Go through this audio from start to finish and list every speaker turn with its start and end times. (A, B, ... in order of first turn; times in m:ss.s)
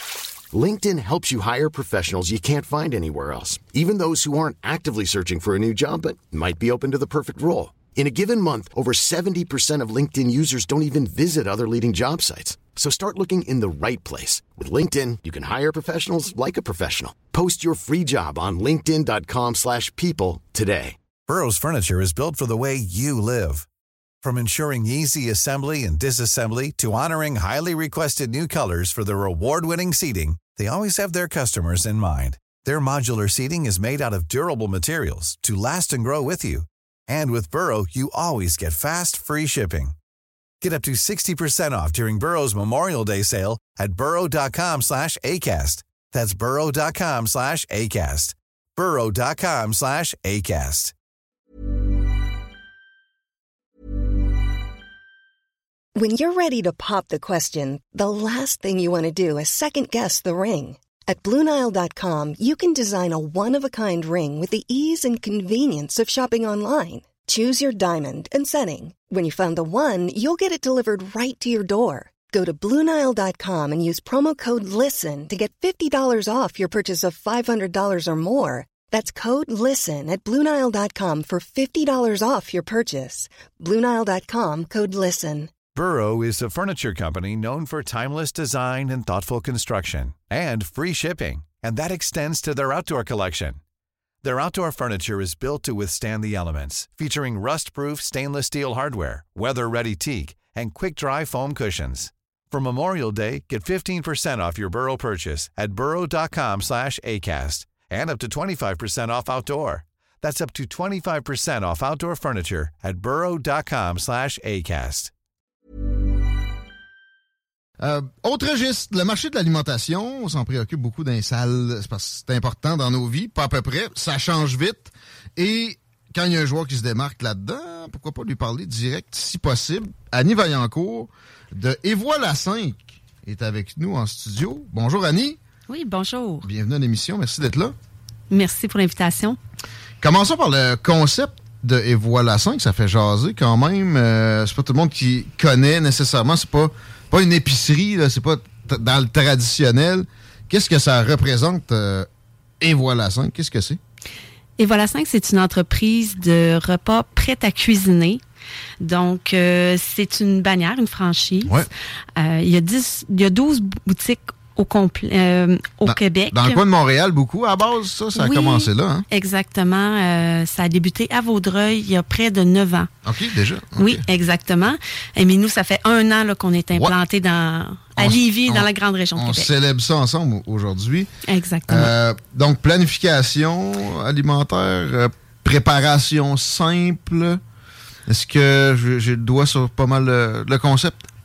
0:00.5-0:21.0 A
0:21.3-0:23.7 B
0:24.2-0:40.0 B
0:40.6-0:50.9 B
0:56.0-1:25.5 C
1:25.8-1:33.6 B
1:34.2-1:55.1 B
1:57.8-2:15.4 D
2:15.7-2:16.5 E
2:16.4-2:17.7 D
2:18.3-2:19.4 E
2:20.0-2:32.1 D
2:32.6-2:33.8 D
2:34.6-2:38.2 E
2:38.8-2:41.6 E
2:42.2-2:46.6 E
2:45.8-2:49.0 D
2:48.2-2:52.9 E
2:53.0-2:54.0 D
2:53.8-2:59.5 E
2:58.0-3:01.1 D
3:01.3-3:01.9 E
3:01.7-3:07.4 D
3:08.1-3:11.1 D